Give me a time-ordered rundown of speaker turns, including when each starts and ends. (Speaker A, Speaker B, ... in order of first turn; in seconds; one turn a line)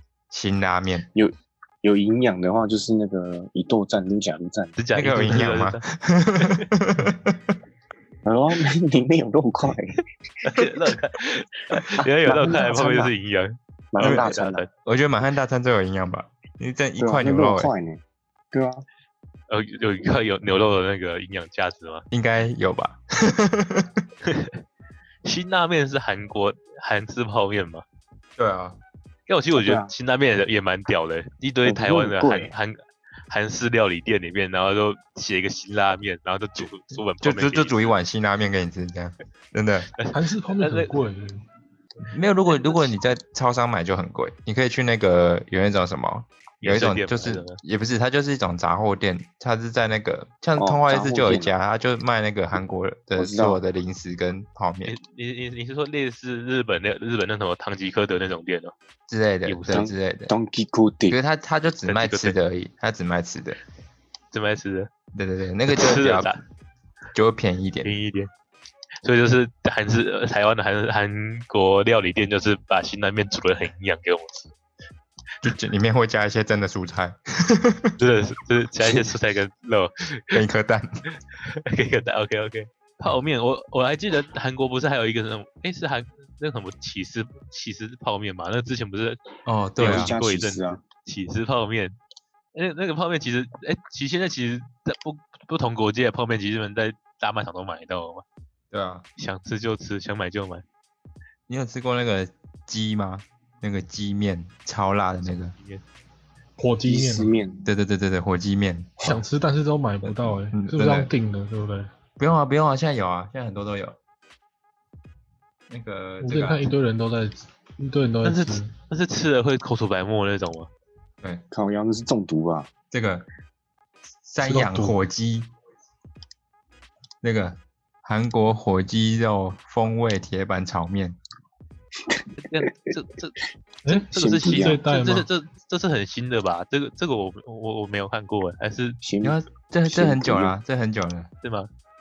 Speaker A: 0.3-1.1
Speaker B: 1.1-4.8
Speaker C: 4.8-5.8
Speaker A: 4.9-7.5
Speaker C: 6.4-6.6
Speaker B: 8.2-10.7
Speaker C: 10.4-14.7
Speaker B: 11.8-13.1
Speaker B: 13.9-14.7
Speaker A: 14.0-14.3
Speaker A: 14.8-17.7
Speaker B: 17.0-18.9
Speaker C: 19.5-22.0
Speaker A: 22.1-24.0
Speaker C: 24.2-24.6
Speaker C: 25.2-27.8
Speaker A: 28.4-28.8
Speaker C: 29.3-37.9
Speaker B: 29.6-29.9
Speaker B: 31.6-32.5
Speaker A: 37.2-39.9
Speaker C: 39.9-41.0
Speaker D: 40.1-41.4
Speaker A: 42.1-54.9
Speaker C: 42.5-42.8
Speaker C: 46.6-47.6
Speaker B: 50.5-51.5
Speaker B: 53.1-53.6
Speaker C: 54.9-58.7
Speaker A: 59.1-60.3
Speaker C: 59.5-59.8
Speaker B: 59.7-61.2
Speaker A: 61.1-63.6
Speaker C: 61.9-62.4
Speaker C: 64.3-64.9
Speaker A: 65.1-66.3
Speaker C: 65.7-66.4
Speaker A: 67.1-68.0
Speaker C: 67.8-68.3
Speaker C: 69.0-74.5
Speaker A: 75.4-78.0
Speaker C: 78.0-80.4
Speaker A: 80.3-81.0
Speaker C: 81.3-89.2
Speaker A: 89.5-90.1
Speaker C: 89.8-92.0
Speaker B: 89.8-90.8
Speaker C: 92.5-98.2
Speaker A: 98.7-99.0
Speaker C: 99.2-100.6
Speaker A: 101.5-105.5
Speaker C: 105.2-105.8
Speaker D: 106.6-107.3
Speaker B: 106.9-107.7
Speaker A: 107.6-109.2
Speaker D: 109.0-111.9
Speaker A: 110.0-111.1
Speaker A: 112.2-114.0
Speaker A: 115.7-116.7
Speaker D: 116.2-118.7
Speaker C: 118.2-120.7
Speaker B: 121.5-122.7
Speaker A: 122.9-123.2
Speaker A: 124.2-125.5
Speaker D: 124.4-125.0
Speaker A: 127.2-131.2
Speaker C: 132.4-133.4
Speaker D: 133.8-135.3
Speaker B: 133.9-134.8
Speaker C: 134.2-139.0
Speaker B: 139.0-140.5
Speaker A: 139.2-141.3
Speaker C: 141.4-141.7